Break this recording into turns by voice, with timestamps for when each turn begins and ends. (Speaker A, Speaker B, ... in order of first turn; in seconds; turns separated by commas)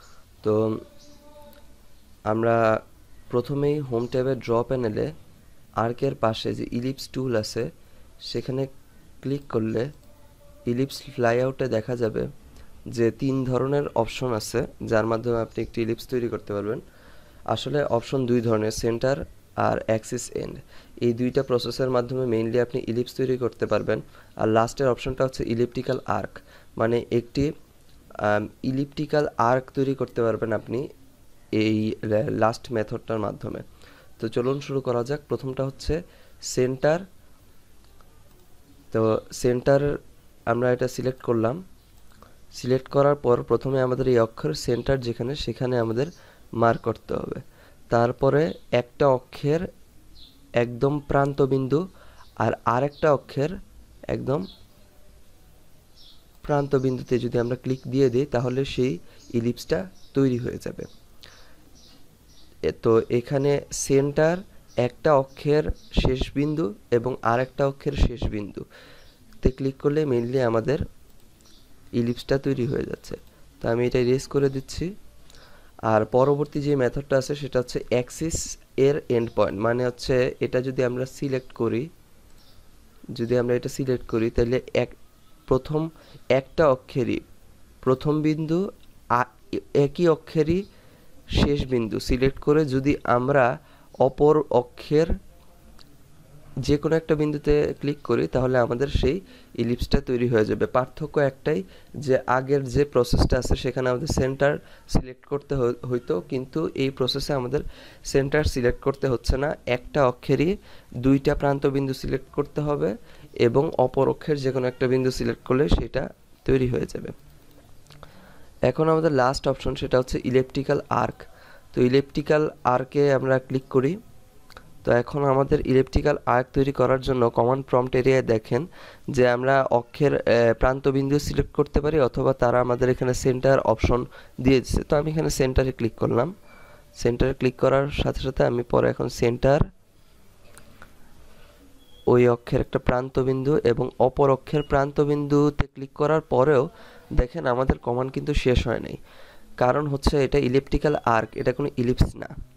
Speaker A: 0.4-0.8, Speaker A: 2.3-2.6, Speaker A: 3.3-5.1, Speaker A: 5.8-7.7, Speaker A: 8.3-8.7, Speaker A: 9.2-9.9, Speaker A: 10.7-12.3, Speaker A: 12.9-16.8, Speaker A: 17.5-27.5, Speaker A: 28.2-30.8, Speaker A: 31.6-33.6, Speaker A: 34.2-36.0, Speaker A: 36.5-37.0, Speaker A: 38.9-39.9, Speaker A: 40.5-41.6, Speaker A: 42.5-46.1, Speaker A: 46.6-49.7, Speaker A: 50.6-51.8, Speaker A: 52.4-53.5, Speaker A: 54.1-54.5, Speaker A: 56.4-60.9, Speaker A: 62.7-68.6, Speaker A: 69.4-70.8, Speaker A: 72.0-74.9, Speaker A: 75.9-81.9, Speaker A: 83.1-84.9, Speaker A: 85.5-87.2, Speaker A: 87.8-88.6, Speaker A: 89.1-90.6, Speaker A: 91.4-93.5, Speaker A: 94.0-95.1, Speaker A: 96.6-117.1, Speaker A: 118.7-124.0, Speaker A: 124.8-136.3, Speaker A: 137.0-139.6, Speaker A: 142.1-146.6, Speaker A: 147.2-149.0, Speaker A: 149.6-152.3